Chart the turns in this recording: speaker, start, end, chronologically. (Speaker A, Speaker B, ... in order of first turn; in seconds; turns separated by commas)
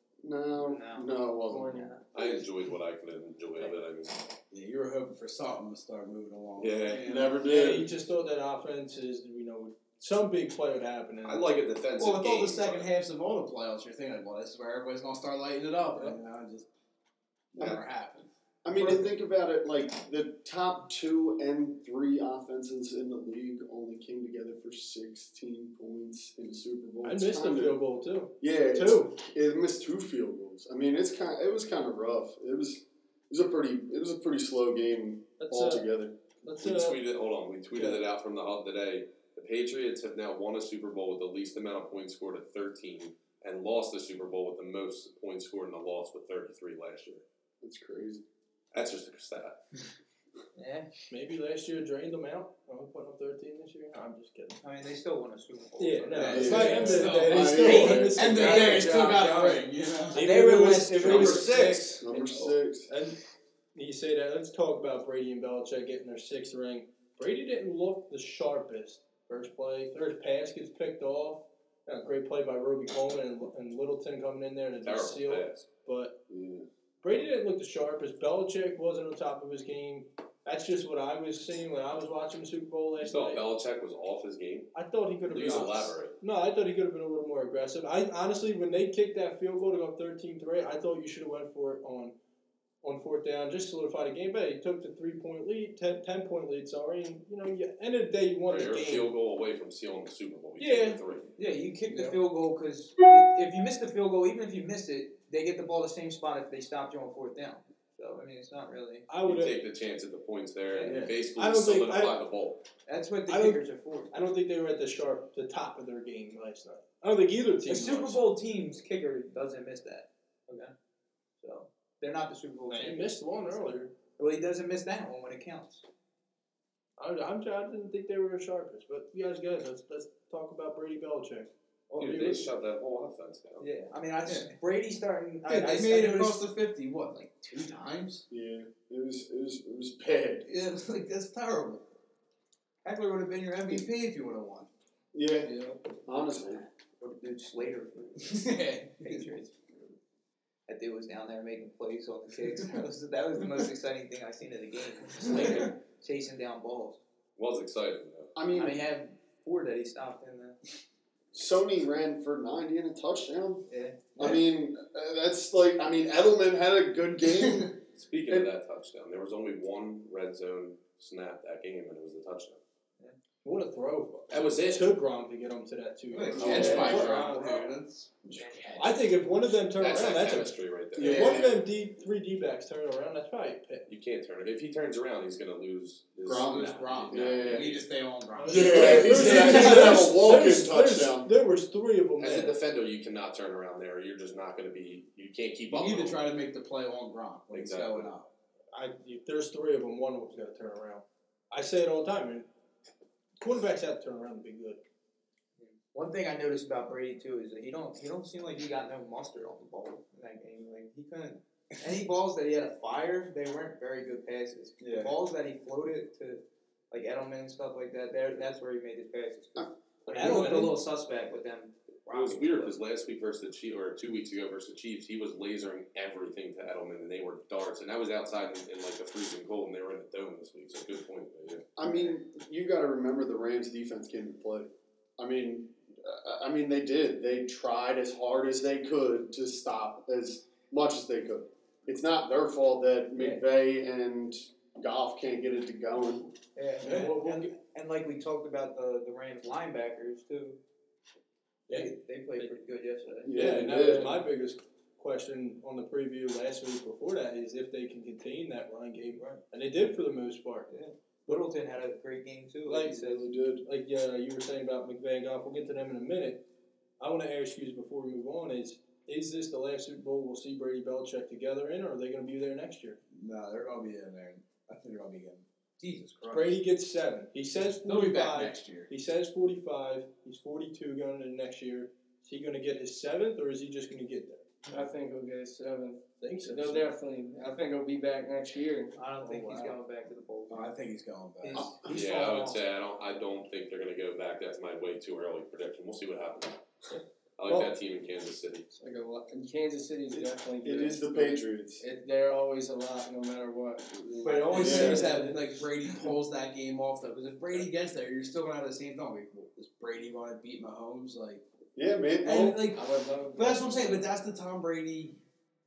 Speaker A: 0.2-1.9, Speaker B: 0.6-1.1, Speaker C: 1.5-1.9, Speaker B: 1.7-2.0, Speaker D: 2.1-4.2, Speaker E: 4.5-7.4, Speaker D: 6.6-7.2, Speaker A: 7.0-7.9, Speaker F: 7.3-11.5, Speaker D: 11.2-12.9, Speaker E: 12.0-16.7, Speaker E: 17.5-19.0, Speaker A: 18.6-27.8, Speaker F: 27.0-29.2, Speaker A: 28.4-36.2, Speaker F: 35.4-35.9, Speaker F: 36.4-37.0, Speaker D: 36.6-47.2, Speaker F: 37.7-38.0, Speaker A: 47.6-48.2, Speaker D: 48.7-49.6, Speaker B: 50.6-50.9, Speaker F: 51.1-54.6, Speaker B: 54.6-58.8, Speaker F: 55.8-58.9, Speaker E: 56.1-60.2, Speaker A: 56.4-58.5, Speaker C: 58.6-59.6, Speaker B: 60.1-61.6, Speaker F: 60.1-61.5, Speaker D: 61.0-62.0, Speaker A: 61.6-62.9, Speaker C: 62.1-62.5, Speaker F: 62.9-63.2, Speaker F: 63.8-76.2, Speaker D: 74.8-75.7, Speaker A: 76.3-76.7, Speaker F: 77.0-83.5, Speaker D: 83.0-84.7, Speaker F: 84.7-92.1, Speaker D: 85.2-86.2, Speaker F: 92.8-99.1, Speaker D: 98.5-101.3, Speaker F: 100.6-101.0, Speaker B: 101.4-109.1, Speaker F: 109.1-109.6, Speaker D: 109.2-112.6, Speaker B: 110.7-111.1, Speaker F: 111.4-112.2, Speaker B: 112.8-114.3, Speaker F: 113.3-118.2, Speaker B: 117.7-120.7, Speaker B: 121.4-125.8, Speaker F: 122.7-123.9, Speaker F: 127.0-132.4, Speaker B: 131.9-132.4, Speaker D: 132.0-133.7, Speaker B: 133.6-136.4, Speaker E: 134.2-134.5, Speaker E: 135.5-138.2, Speaker A: 138.3-140.4, Speaker E: 140.4-141.9, Speaker E: 142.8-144.7, Speaker A: 145.1-145.5, Speaker C: 145.5-145.8, Speaker A: 146.1-146.7, Speaker B: 147.0-148.5, Speaker E: 148.2-149.2, Speaker B: 149.0-149.5, Speaker B: 150.7-157.0, Speaker D: 157.4-158.3, Speaker A: 158.3-158.8, Speaker B: 158.5-160.6, Speaker A: 161.3-163.7, Speaker B: 163.7-164.4, Speaker A: 164.2-167.8, Speaker D: 168.0-172.6, Speaker F: 173.4-177.6, Speaker D: 174.3-174.9, Speaker E: 176.1-179.0, Speaker D: 176.3-177.2, Speaker A: 176.4-177.1, Speaker B: 178.3-178.9, Speaker F: 178.8-183.9, Speaker D: 179.8-181.4, Speaker A: 180.9-181.6, Speaker D: 183.9-187.7, Speaker E: 186.2-190.1, Speaker A: 186.3-187.7, Speaker F: 188.4-192.6, Speaker A: 188.4-191.3, Speaker D: 192.2-196.2, Speaker E: 195.7-198.3, Speaker D: 197.5-198.1, Speaker F: 198.7-202.5, Speaker F: 203.4-204.8, Speaker B: 205.6-222.8, Speaker E: 214.8-215.2, Speaker F: 220.1-220.8, Speaker D: 222.1-231.6, Speaker A: 231.8-246.3, Speaker B: 246.6-250.6, Speaker F: 246.8-247.5, Speaker B: 251.7-253.5, Speaker F: 251.7-252.5, Speaker A: 253.2-254.2, Speaker F: 253.3-260.7, Speaker B: 260.7-263.2, Speaker F: 262.7-263.1, Speaker A: 262.8-263.6, Speaker F: 263.6-266.4, Speaker F: 267.0-273.0, Speaker E: 273.1-276.6, Speaker F: 276.3-284.4, Speaker E: 277.8-278.9, Speaker C: 284.7-289.0, Speaker F: 286.2-286.9, Speaker B: 288.9-290.6, Speaker F: 289.2-289.8, Speaker E: 290.5-291.7, Speaker B: 291.4-292.6, Speaker A: 291.5-292.0, Speaker D: 291.9-296.6, Speaker D: 297.4-298.6, Speaker C: 298.7-305.4, Speaker A: 300.1-301.8, Speaker A: 304.2-305.1, Speaker E: 304.2-311.4, Speaker A: 311.8-312.6, Speaker E: 312.2-312.8, Speaker C: 312.7-314.0, Speaker E: 313.3-315.2